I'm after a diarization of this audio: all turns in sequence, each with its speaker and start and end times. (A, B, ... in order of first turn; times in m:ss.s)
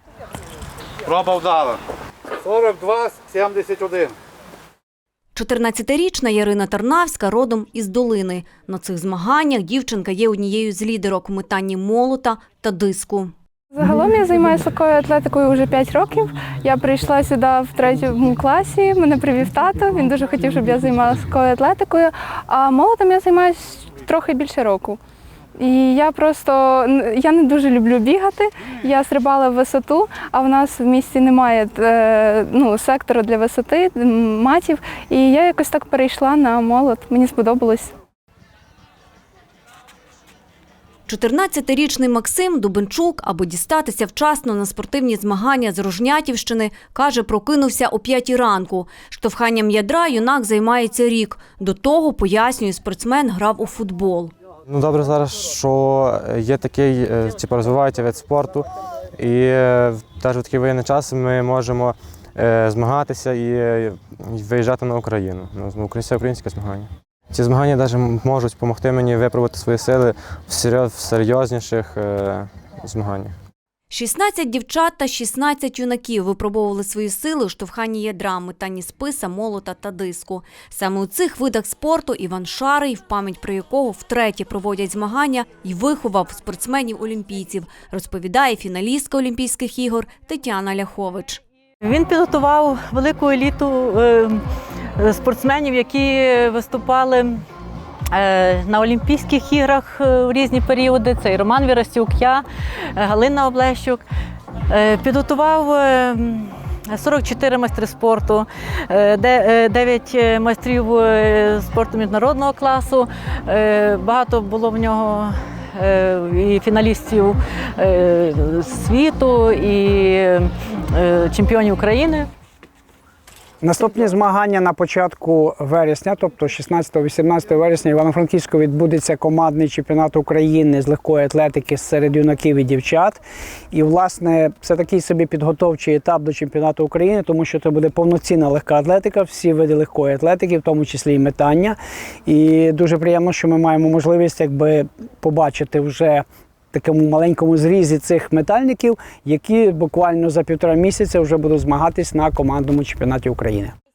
0:01.1-0:01.8 A
0:02.4-0:04.1 A
0:05.4-0:13.3 B
0:13.7-0:25.0 C
0:25.6-0:37.9 C
0:41.1-0:54.3 B
0:54.7-1:13.3 D
1:13.9-1:31.4 B
1:31.8-1:34.4 E
1:35.0-1:37.4 E
1:38.1-1:44.0 E
1:44.7-2:02.3 E
2:03.6-2:13.2 F
2:13.7-2:33.7 F